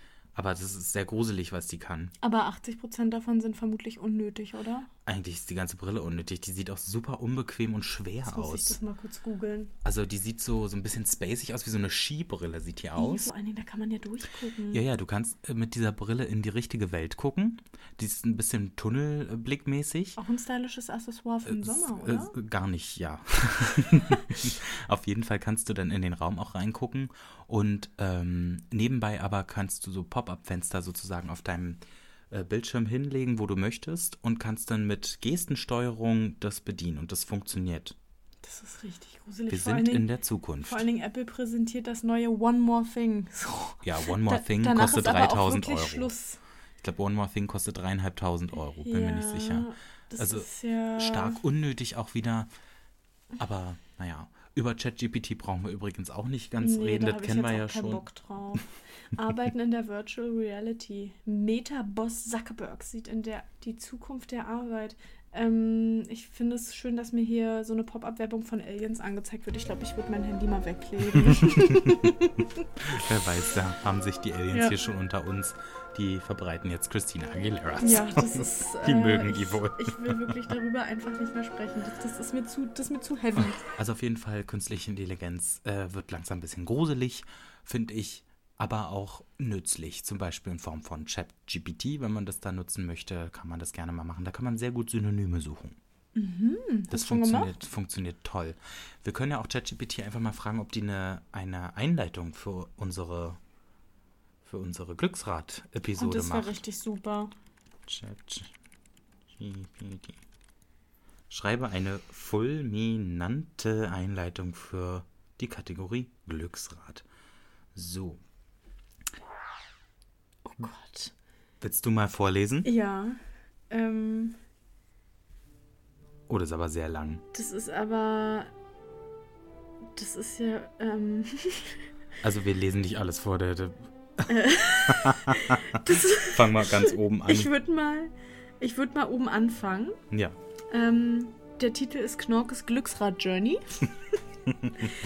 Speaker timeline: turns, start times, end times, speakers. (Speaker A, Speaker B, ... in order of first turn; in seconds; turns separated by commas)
Speaker A: 0.3-2.1, Speaker B: 2.2-4.9, Speaker A: 5.0-8.8, Speaker B: 8.3-9.7, Speaker A: 9.8-13.3, Speaker B: 13.0-14.8, Speaker A: 14.7-20.2, Speaker B: 20.2-22.4, Speaker A: 21.5-38.0, Speaker B: 38.4-40.1, Speaker A: 39.5-40.9, Speaker B: 40.6-46.4, Speaker A: 43.8-46.1, Speaker A: 46.8-52.5, Speaker B: 48.8-51.4, Speaker A: 53.4-58.0, Speaker B: 56.6-72.7, Speaker A: 71.2-72.1, Speaker A: 72.8-80.4, Speaker B: 77.8-83.7, Speaker A: 83.4-95.8, Speaker B: 96.2-97.5, Speaker A: 96.9-103.4, Speaker A: 104.4-106.6, Speaker B: 106.0-107.3, Speaker A: 107.9-108.5, Speaker A: 109.3-110.2, Speaker A: 111.3-117.0, Speaker A: 117.8-118.2, Speaker B: 120.5-121.1, Speaker A: 121.6-122.7, Speaker B: 122.7-123.2, Speaker B: 123.7-124.4, Speaker A: 126.3-127.2, Speaker B: 127.3-128.5, Speaker B: 130.0-131.8, Speaker A: 132.2-137.5, Speaker B: 134.3-140.0, Speaker A: 140.1-140.4, Speaker B: 140.7-143.9